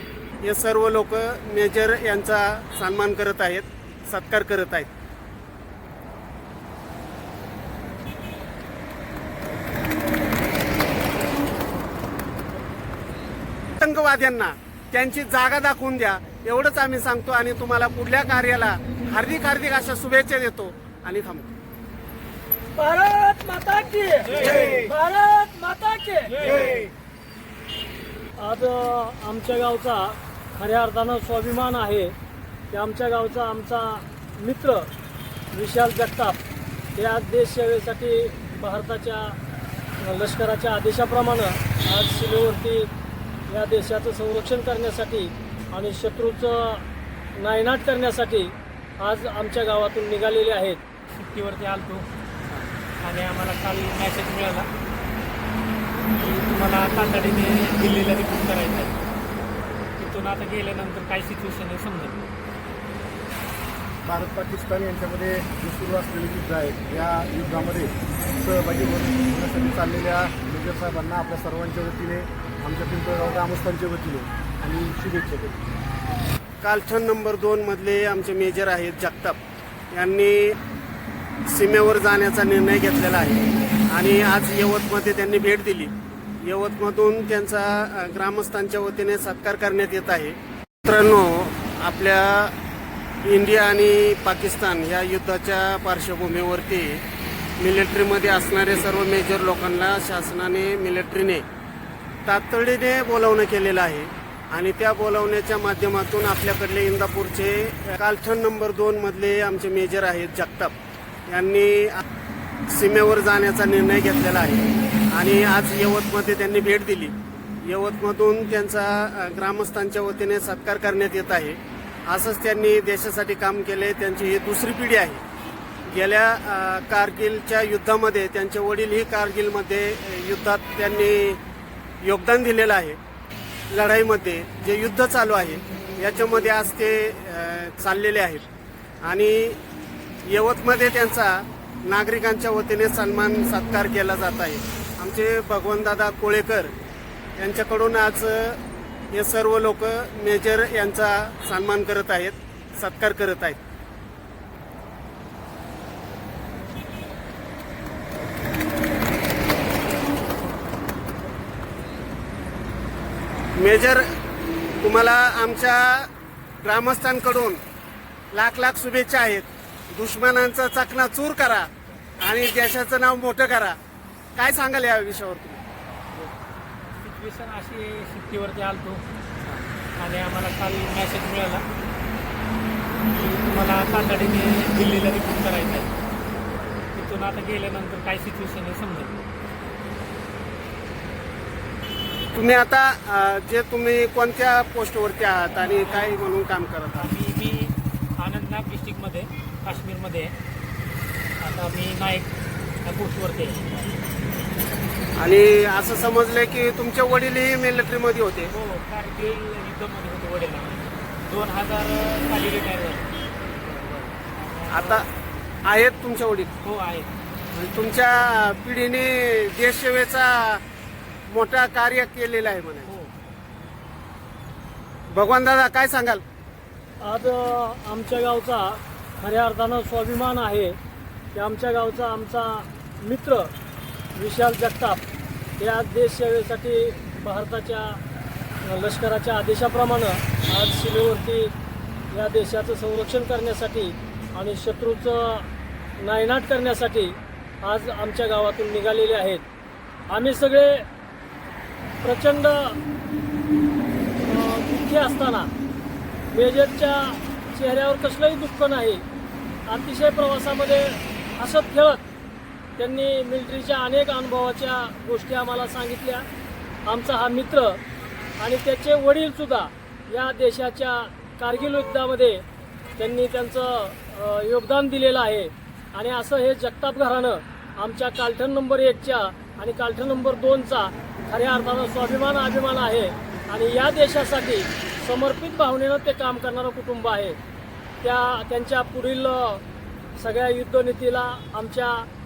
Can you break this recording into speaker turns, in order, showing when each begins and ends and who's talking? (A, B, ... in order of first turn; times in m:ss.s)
0:00.4-0:04.9 A
0:13.8-0:21.5 A
0:22.8-0:26.9 B
0:28.4-0:32.2 B
0:32.7-0:34.9 B
0:35.5-0:36.4 B
0:37.0-0:39.4 B
0:40.0-0:42.9 B
0:43.5-0:50.8 B
0:51.2-0:52.1 C
0:53.0-0:54.7 C
0:56.1-0:58.9 C
1:00.0-1:02.3 C
1:04.0-1:15.6 D
1:16.6-1:19.4 A
1:19.9-1:20.6 A
1:21.5-1:32.6 A
1:33.2-1:37.0 A
1:37.6-1:41.5 A
1:42.2-1:50.7 A
1:51.3-1:52.0 A
1:52.7-2:05.2 A
2:05.9-2:11.4 A
2:12.0-2:13.0 A
2:13.7-2:18.4 A
2:19.0-2:19.6 A
2:20.2-2:26.7 A
2:27.4-2:28.6 A
2:29.1-2:33.6 A
2:43.6-2:44.0 A
2:44.8-2:46.1 A
2:46.6-2:47.6 A
2:48.3-2:51.7 A
2:52.2-2:53.8 A
2:54.4-2:55.6 A
2:57.0-2:59.0 C
3:00.0-3:01.6 C
3:03.1-3:05.9 C
3:06.9-3:09.2 C
3:12.3-3:17.1 A
3:17.0-3:20.3 C
3:21.4-3:22.3 C
3:22.8-3:23.8 C
3:25.2-3:28.5 A
3:28.5-3:33.1 C
3:33.6-3:35.1 C
3:34.7-3:35.1 A
3:35.6-3:36.5 A
3:36.6-3:37.1 C
3:37.5-3:40.6 A
3:41.3-3:42.9 A
3:42.9-3:43.1 C
3:45.1-3:46.2 A
3:47.0-3:50.8 B
3:51.3-3:53.5 B
3:54.2-3:55.0 B
3:55.6-3:58.0 B
3:58.6-4:01.5 B
4:02.1-4:09.4 B
4:10.1-4:10.9 B
4:12.0-4:12.8 B
4:14.2-4:15.5 B
4:16.3-4:19.0 B
4:19.7-4:22.0 B
4:22.8-4:26.3 B
4:26.9-4:27.8 B
4:28.4-4:32.4 B
4:33.0-4:47.4 B
4:48.0-4:49.6 B
4:50.2-4:52.1 B